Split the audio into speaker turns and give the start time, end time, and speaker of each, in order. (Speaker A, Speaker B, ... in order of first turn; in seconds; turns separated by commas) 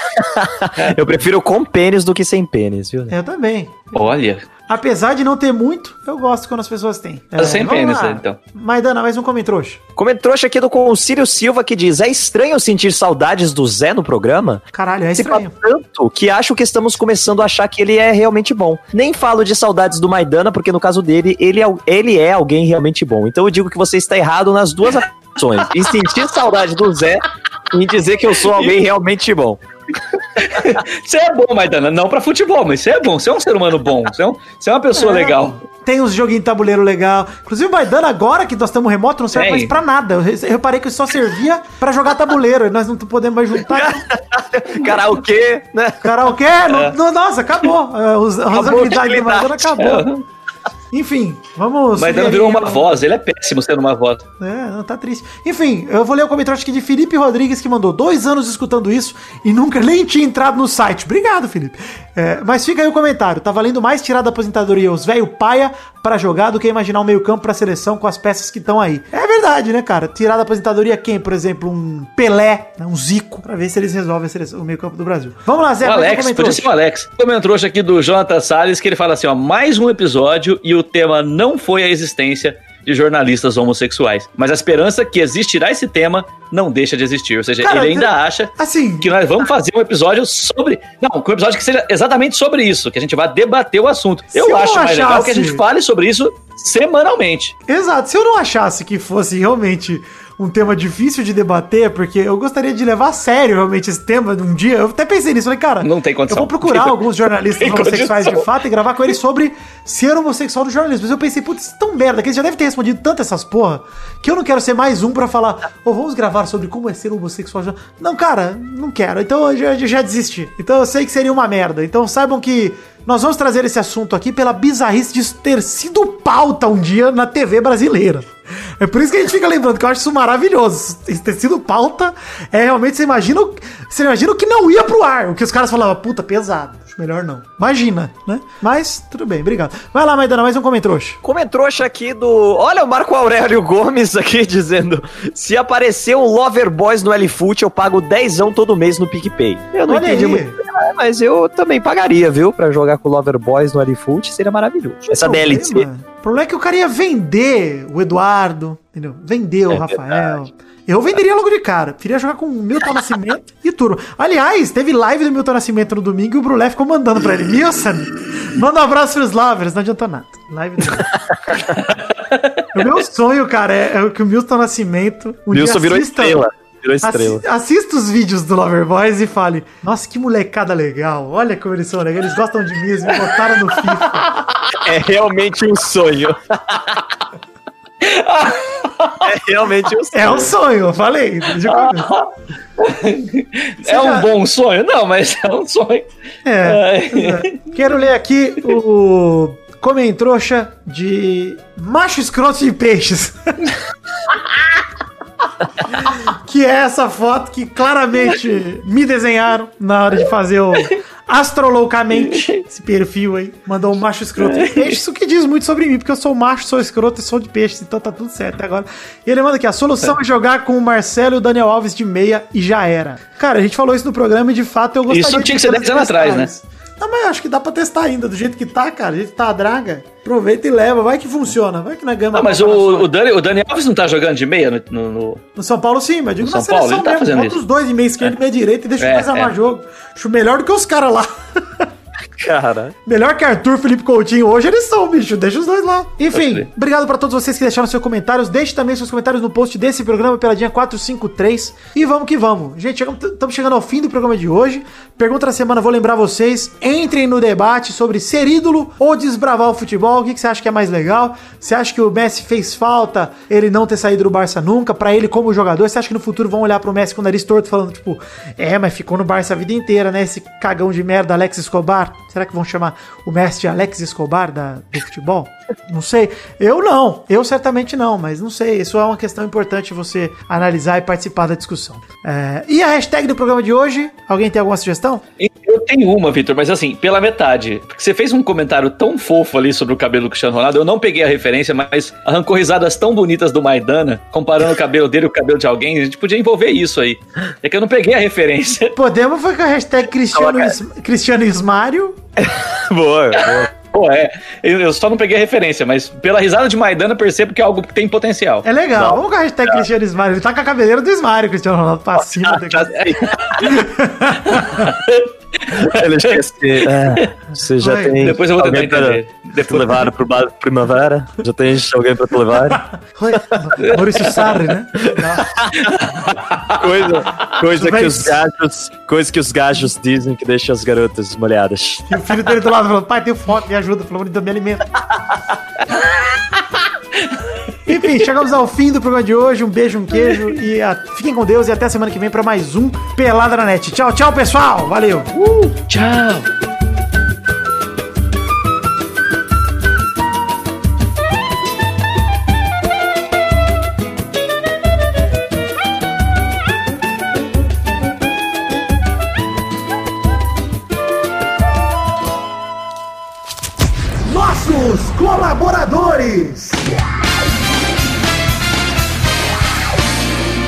Speaker A: 0.1-3.1, Speaker B: 3.1-3.9, Speaker C: 3.9-4.5, Speaker B: 4.7-9.8, Speaker C: 7.3-8.4, Speaker A: 10.0-14.6, Speaker B: 14.7-15.6, Speaker A: 15.2-29.6, Speaker C: 28.5-28.8, Speaker C: 30.4-35.6, Speaker B: 35.0-44.1, Speaker C: 39.3-39.7, Speaker A: 43.7-46.3, Speaker B: 46.0-50.1, Speaker C: 46.7-47.0, Speaker A: 48.5-49.8, Speaker C: 49.8-50.2, Speaker B: 50.9-53.0, Speaker C: 52.0-54.2, Speaker B: 54.4-76.7, Speaker C: 75.8-97.5, Speaker B: 87.6-89.1, Speaker B: 94.3-95.6, Speaker B: 97.7-141.2, Speaker C: 105.8-107.0, Speaker C: 107.6-108.5, Speaker A: 141.2-155.8, Speaker B: 149.9-150.6, Speaker B: 155.0-171.2, Speaker C: 171.8-172.7, Speaker B: 172.7-176.4, Speaker A: 175.5-177.4, Speaker B: 177.0-184.3, Speaker C: 183.1-184.8, Speaker A: 184.8-187.0, Speaker C: 188.0-189.3, Speaker A: 189.2-190.5, Speaker B: 190.1-192.1, Speaker C: 191.6-196.1, Speaker B: 193.8-194.3, Speaker B: 196.4-203.7, Speaker C: 196.6-197.6, Speaker B: 205.9-233.1, Speaker C: 212.2-212.6, Speaker C: 214.4-214.9, Speaker C: 225.1-226.5, Speaker C: 232.3-235.4, Speaker B: 235.6-241.9, Speaker C: 236.4-237.6, Speaker C: 239.0-239.5, Speaker A: 242.4-242.9, Speaker B: 243.1-285.2, Speaker C: 246.3-246.7, Speaker C: 285.4-298.9, Speaker B: 298.9-302.2, Speaker A: 300.3-300.7, Speaker A: 302.4-303.7, Speaker C: 303.3-308.6, Speaker B: 308.6-312.9, Speaker A: 312.4-313.7, Speaker C: 313.0-313.7, Speaker B: 313.6-314.9, Speaker C: 314.5-317.3, Speaker A: 315.8-322.8, Speaker B: 317.8-318.2, Speaker C: 318.2-320.1, Speaker B: 323.1-325.5, Speaker C: 323.8-324.5, Speaker A: 325.0-325.9, Speaker C: 325.8-327.5, Speaker A: 326.8-332.1, Speaker B: 327.6-328.4, Speaker B: 332.1-334.9, Speaker C: 335.9-337.5, Speaker B: 337.9-345.3, Speaker C: 345.3-346.5, Speaker B: 364.2-366.8